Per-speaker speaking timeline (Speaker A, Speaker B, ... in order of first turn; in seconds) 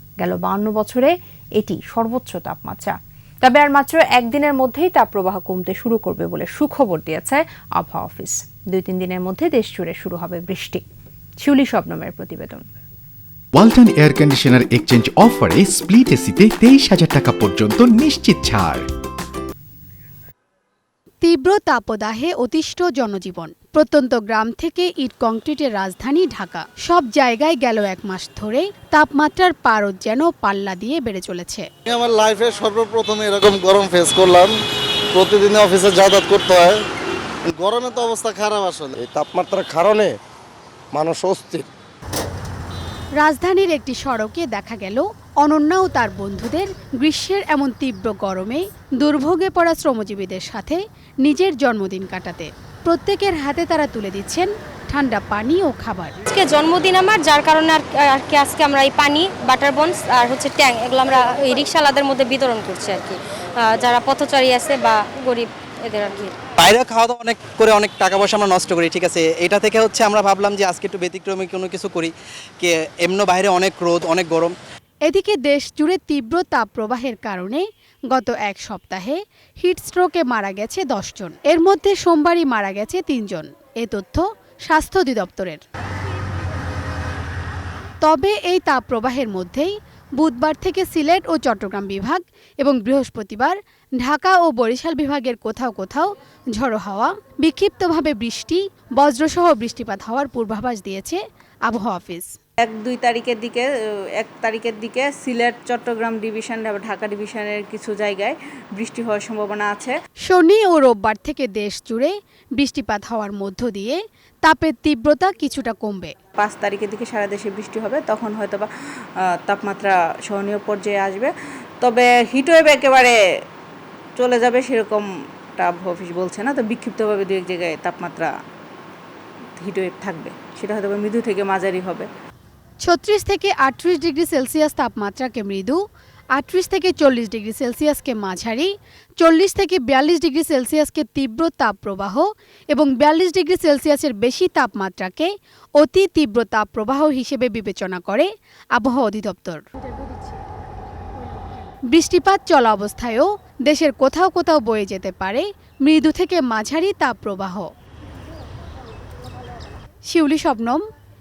Speaker A: 0.2-10.8, 11.4-12.6
Speaker B: 13.5-18.9
Speaker C: 21.2-31.7, 43.2-56.2, 75.0-85.6, 88.0-102.4, 110.2-116.1, 132.8-135.8, 136.3-150.1, 151.9-157.7, 160.1-160.8
Speaker D: 31.8-34.5, 35.1-36.8, 37.5-38.9
Speaker E: 38.9-40.1, 40.9-41.7
Speaker F: 56.3-66.3
Speaker G: 66.6-74.5
Speaker H: 102.6-103.7, 104.2-109.9, 116.4-118.7, 119.5-123.2, 124.2-128.3, 129.6-132.1